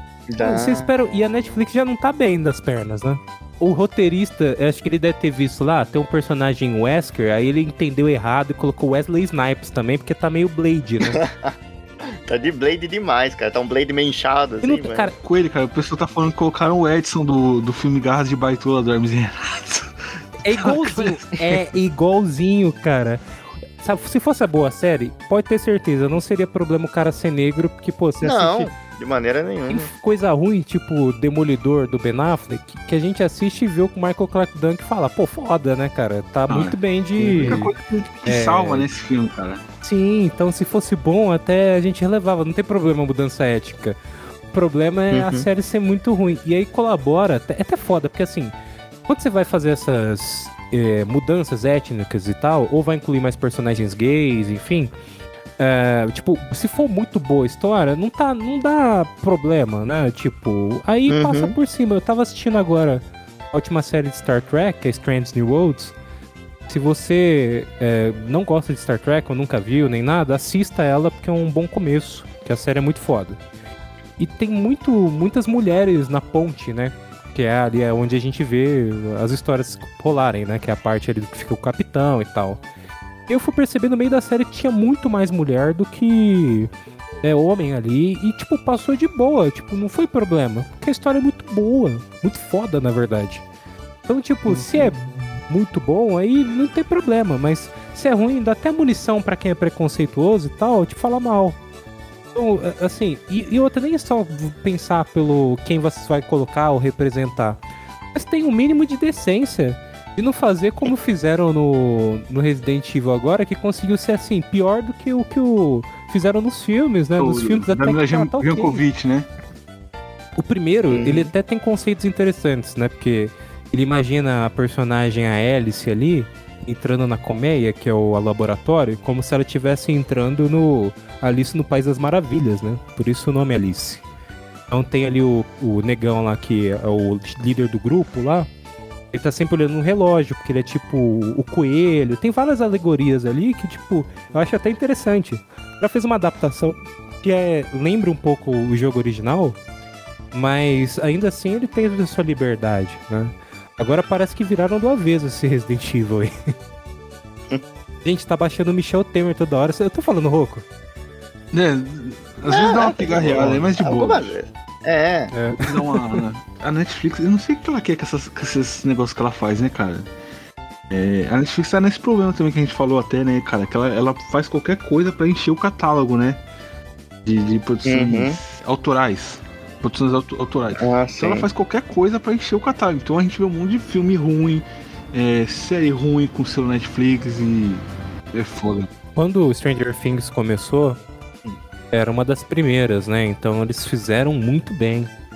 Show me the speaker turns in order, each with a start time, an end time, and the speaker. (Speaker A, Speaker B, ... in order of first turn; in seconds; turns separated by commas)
Speaker A: 0.3-0.9, Speaker B: 0.4-11.2, Speaker A: 11.0-11.5, Speaker A: 12.0-15.1, Speaker B: 14.6-15.1, Speaker C: 15.2-21.3, Speaker B: 20.4-23.2, Speaker B: 23.8-28.7, Speaker A: 28.2-29.9, Speaker B: 29.7-37.7, Speaker C: 36.5-36.8, Speaker A: 37.2-37.6, Speaker C: 37.3-39.6, Speaker B: 38.2-38.9, Speaker B: 39.8-44.0, Speaker B: 44.5-48.5, Speaker A: 45.1-45.5, Speaker B: 49.1-54.9, Speaker B: 55.6-65.9, Speaker A: 61.1-61.5, Speaker B: 66.7-73.4, Speaker B: 74.2-82.6, Speaker B: 83.3-86.7, Speaker B: 87.2-93.4, Speaker B: 94.1-101.6, Speaker A: 94.5-94.9, Speaker B: 102.3-107.6, Speaker B: 108.1-118.8, Speaker C: 117.2-119.3, Speaker B: 120.4-134.0, Speaker A: 120.9-121.3, Speaker B: 134.7-138.5, Speaker B: 139.1-149.6, Speaker B: 150.3-156.3, Speaker B: 158.0-160.6, Speaker C: 161.5-164.3, Speaker A: 162.5-165.3, Speaker B: 163.4-163.6, Speaker B: 165.3-166.2, Speaker C: 165.6-170.1, Speaker C: 170.9-176.4, Speaker C: 177.2-188.9, Speaker A: 177.8-178.4, Speaker A: 180.8-181.5, Speaker B: 189.1-191.0, Speaker B: 191.9-195.1